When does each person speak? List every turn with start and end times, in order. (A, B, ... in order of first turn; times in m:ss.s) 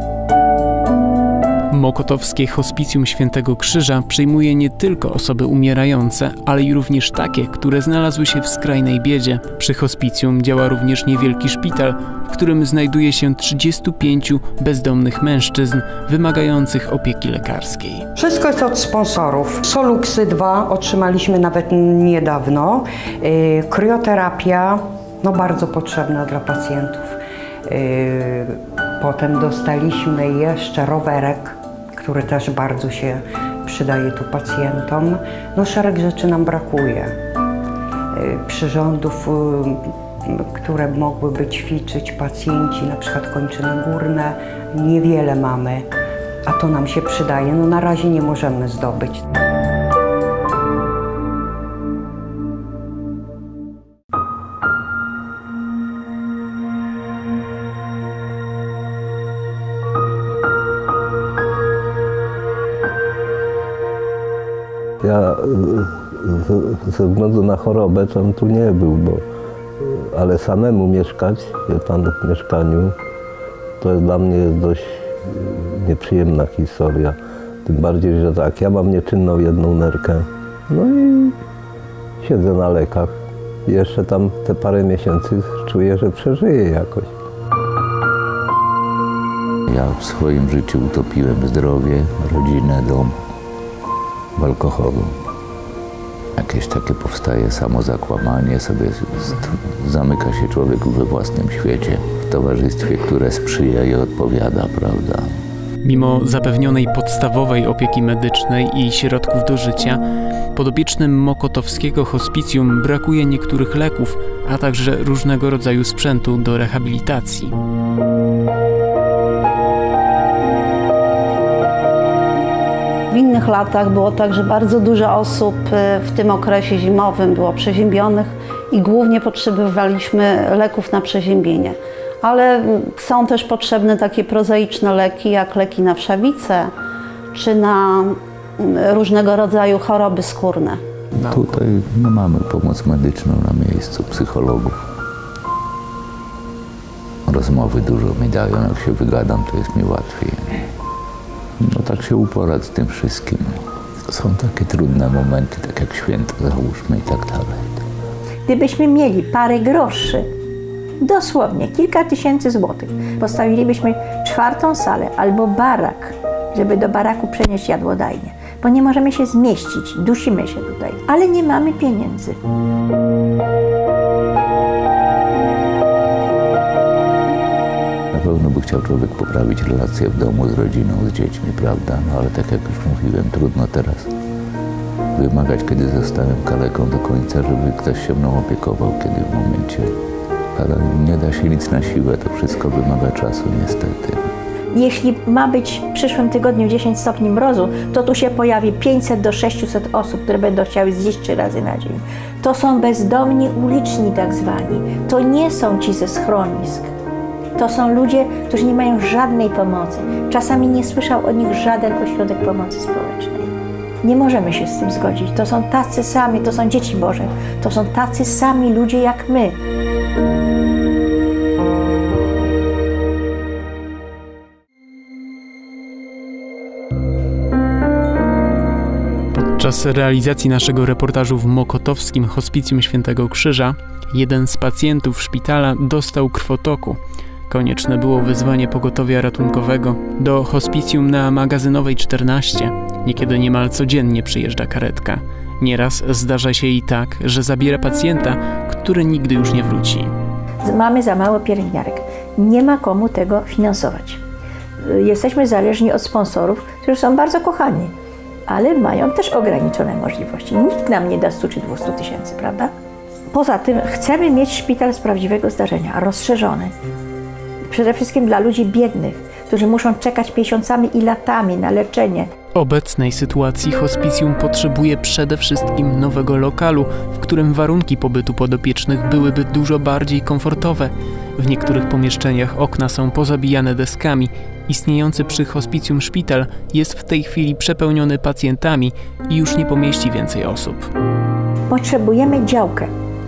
0:01.7-0:18.0 A
0:18.2-0:37.2 B
0:38.1-0:45.9 B
0:46.4-0:49.2 B
1:05.0-1:09.2 C
1:09.8-1:13.0 C
1:13.8-1:21.4 C
1:22.2-1:27.1 C
1:29.7-1:33.2 D
1:34.4-1:35.1 D
1:36.4-1:45.3 D
1:45.8-1:50.0 A
1:50.5-1:57.5 A
2:03.2-2:08.3 E
2:08.8-2:11.7 E
2:12.2-2:16.6 E
2:17.4-2:18.1 E
2:18.9-2:20.8 E
2:21.2-2:24.8 D
2:27.3-2:30.6 D
2:31.6-2:33.6 D
2:34.1-2:37.8 D
2:38.5-2:40.3 F
2:41.0-2:52.4 F
2:58.1-3:04.1 D
3:05.2-3:09.9 D
3:10.6-3:14.3 D
3:14.7-3:26.9 F
3:27.6-3:39.6 F
3:49.3-4:10.1 A
4:10.6-4:14.2 F
4:14.8-4:17.9 F
4:18.5-4:22.7 F
4:23.3-4:26.7 F
4:27.7-4:32.3 F
4:32.5-4:50.9 A
4:51.7-4:52.9 F